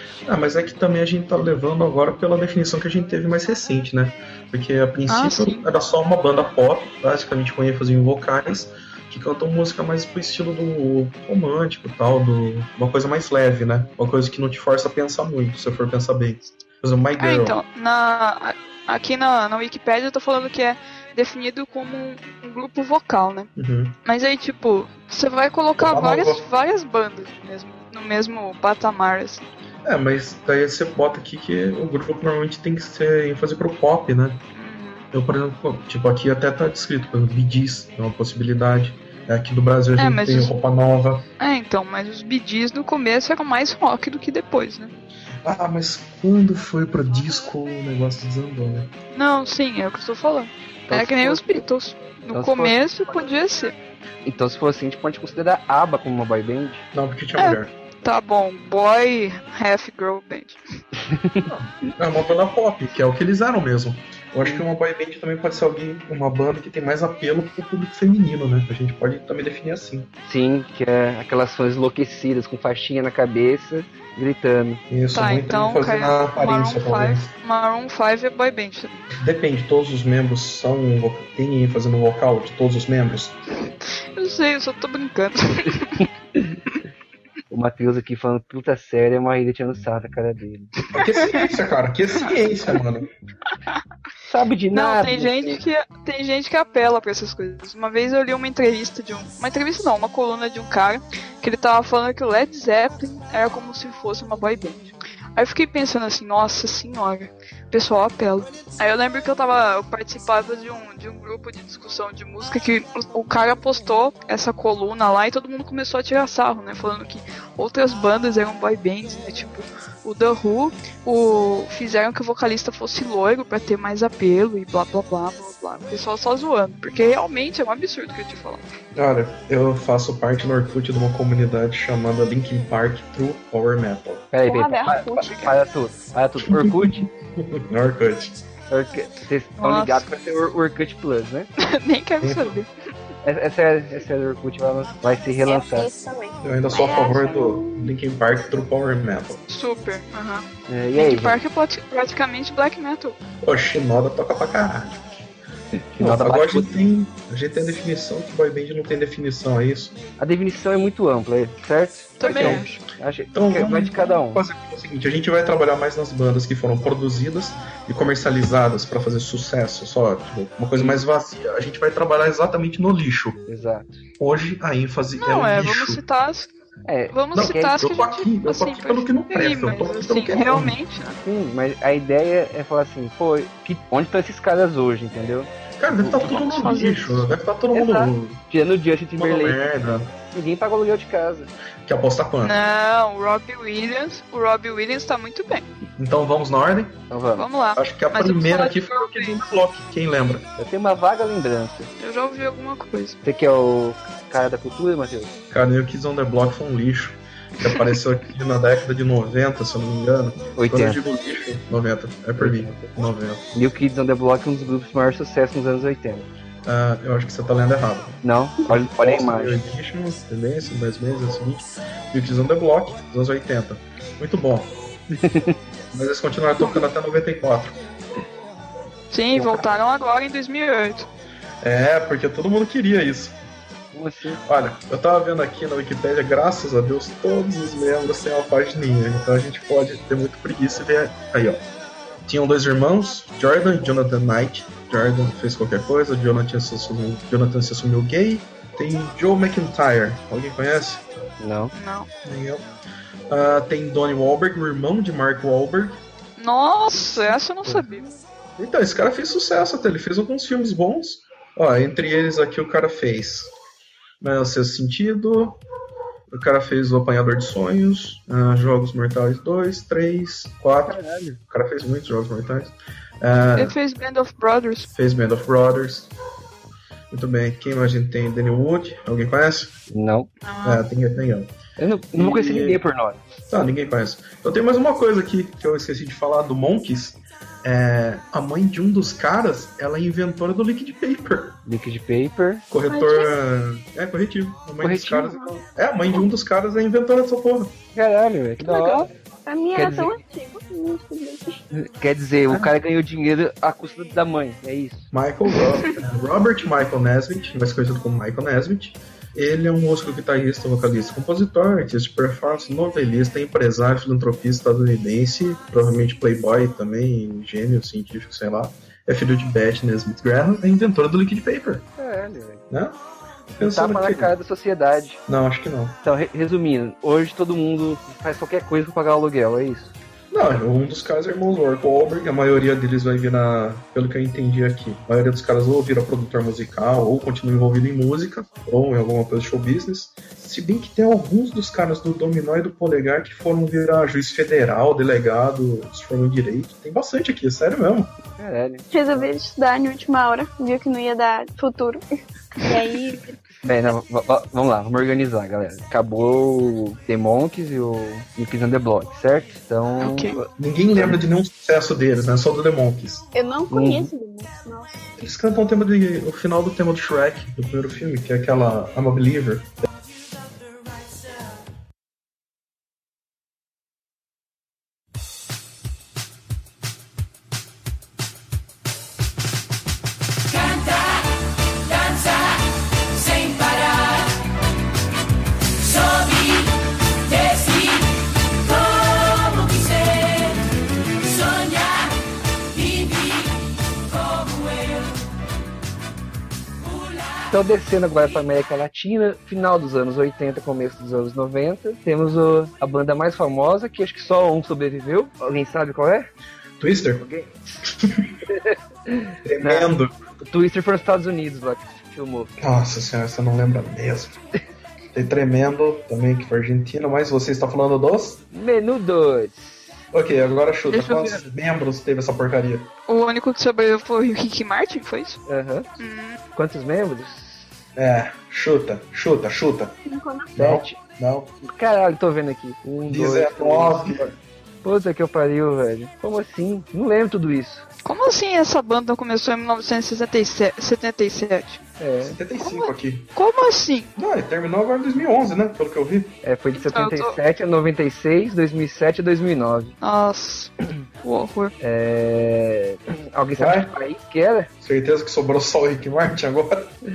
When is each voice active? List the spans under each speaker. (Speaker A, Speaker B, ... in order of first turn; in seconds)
Speaker A: 0.2-17.6, 23.6-24.0, 25.8-26.4, 29.8-34.4, 35.1-41.2, 45.4-48.9, 56.9-57.7, 61.4-70.1, 74.9-77.3, 79.1-83.4, 90.9-93.1, 128.9-134.2, 136.4-138.4, 142.2-142.6, 146.4-149.4, 153.4-155.2, 156.0-160.0, 162.2-162.7, 163.3-173.4, 174.2-176.0, 177.3-180.8, 185.8-188.4, 189.2-190.1, 191.9-192.6, 196.0-197.0, 197.8-200.5, 205.5-213.4, 216.7-224.8, 225.9-227.8, 229.4-229.7, 231.6-233.4, 234.4-241.7, 242.2-251.0, 252.2-252.7, 253.3-256.0, 258.6-263.5, 264.2-265.6, 266.3-273.8, 274.9-276.1, 277.1-279.7, 280.6-281.6, 282.1-282.8, 283.5-291.6, 292.7-297.8, 302.5-302.7, 305.1-321.9, 322.7-323.0, 323.6-324.3, 325.3-326.0, 330.3-348.1, 360.5-363.2, 365.2-369.8, 406.8-407.2, 407.8-408.3, 409.4-410.1, 412.6-414.4, 415.1-418.4, 420.1-422.9, 427.9-429.9, 430.6-431.6, 433.1-434.3, 442.2-443.3, 444.2-446.4, 453.6-453.9, 454.8-456.9
Speaker B: 5.1-5.7, 17.2-23.5, 24.1-29.4, 34.5-35.1, 40.0-40.5, 41.4-44.9, 49.1-53.8, 57.4-60.6, 75.1-79.1, 84.2-85.9, 90.9-91.5, 94.7-128.7, 139.6-140.1, 141.6-142.7, 149.5-153.2, 162.2-162.8, 175.2-176.5, 177.1-181.2, 186.2-187.3, 192.4-195.7, 197.4-199.5, 202.0-203.2, 229.1-231.1, 251.7-252.1, 256.4-258.1, 273.6-274.9, 280.4-280.8, 360.0-360.3, 420.9-421.4, 423.1-425.4, 426.0-426.4, 438.1-441.8, 442.6-444.1, 446.7-447.4, 450.0-450.7, 451.2-451.7
Speaker C: 50.9-51.6, 52.3-52.8, 54.2-56.9, 61.1-61.5, 70.3-74.8, 87.5-90.7, 94.2-95.6, 134.3-137.1, 138.7-141.5, 143.2-145.9, 150.7-151.4, 155.8-156.8, 160.2-164.4, 170.8-171.0, 173.5-174.0, 176.9-177.5, 181.2-186.1, 187.7-189.6, 190.3-191.5, 197.1-197.5, 200.6-201.9, 203.2-205.3, 210.6-211.0, 212.4-212.9, 213.5-216.3, 218.2-219.6, 225.1-225.6, 233.9-234.4, 251.4-251.7, 270.9-271.4, 279.9-280.3, 281.8-283.2, 291.7-292.7, 294.8-295.4, 297.9-299.1, 299.8-300.2, 301.7-305.1, 322.0-322.7, 323.5-325.2, 326.0-329.9, 348.4-349.3, 353.6-360.4, 363.7-364.1, 397.5-406.3, 407.2-407.6, 408.5-412.6, 418.5-420.0, 425.5-425.9, 426.6-427.7, 430.6-431.0, 431.6-434.3, 434.8-437.9, 442.0-442.4, 446.4-449.9, 451.8-454.7
Speaker D: 134.4-135.6, 145.5-147.9, 292.9-293.4, 298.6-301.6, 348.9-352.0, 352.6-353.4, 363.3-365.1, 430.1-430.5
Speaker E: 380.5-381.3, 381.9-382.4, 383.2-384.3, 385.8-390.6, 391.3-392.1, 392.7-393.6, 394.1-395.1